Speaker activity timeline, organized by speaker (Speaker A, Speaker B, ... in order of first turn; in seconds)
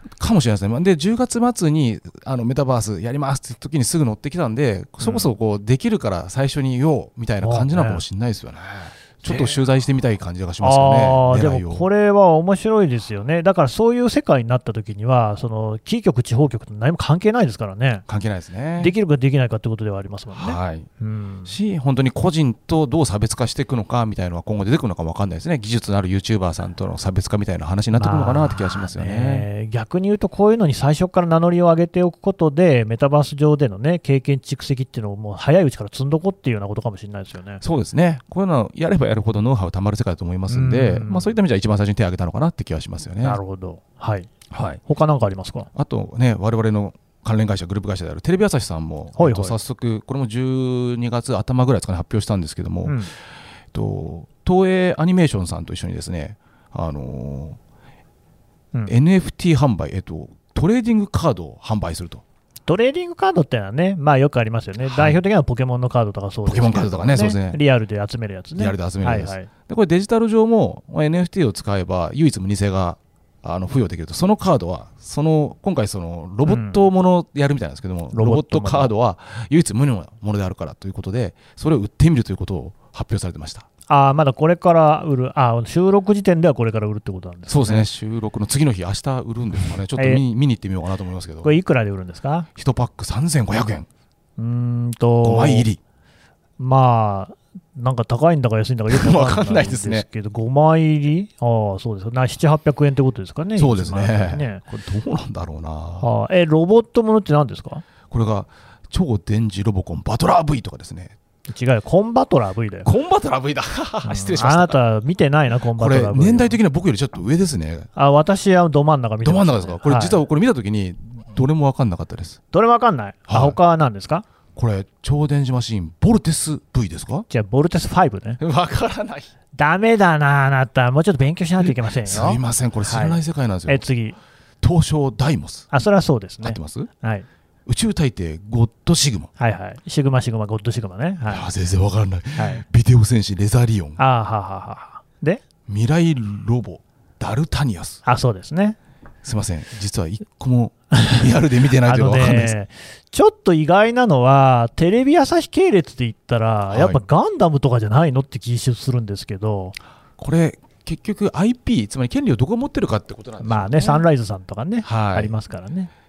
Speaker A: 0.2-11.9, 18.1-18.9, 20.4-20.9, 21.5-29.5, 37.6-43.4, 44.5-44.8, 45.7-53.0, 53.7-57.6, 58.9-62.2, 64.9-65.2, 66.5-67.6, 68.6-83.7, 87.5-91.6, 92.6-93.9, 95.2-95.8, 98.9-100.1, 103.6-106.1, 108.1-111.1, 112.8-114.8, 115.8-117.9, 119.2-122.4, 123.3-123.6, 124.5-127.3, 128.4-129.3, 131.6-133.9, 134.6-135.7, 136.4-136.9, 137.7-139.3, 141.2-144.0, 145.7-148.0, 149.2-152.6, 156.7-157.0, 160.2-164.1, 164.8-165.4
Speaker B: 5.0-5.3, 7.4-8.0, 9.2-9.6, 10.6-18.0, 18.8-21.5, 27.9-37.6, 40.5-41.3, 43.2-44.3, 44.8-45.7, 49.2-49.5, 52.9-53.1, 62.7-69.5, 76.5-76.8, 78.1-78.9, 83.9-87.9, 90.0-90.2, 91.4-92.5, 94.4-95.7, 96.6-104.6, 106.0-107.8, 111.5-112.9, 114.0-116.6, 118.0-120.2, 122.5-124.3, 127.3-128.4, 129.5-134.2, 135.7-137.3, 139.4-141.5, 142.4-142.6, 144.0-145.4, 148.1-148.8, 150.9-151.2, 151.8-159.8, 163.4-165.9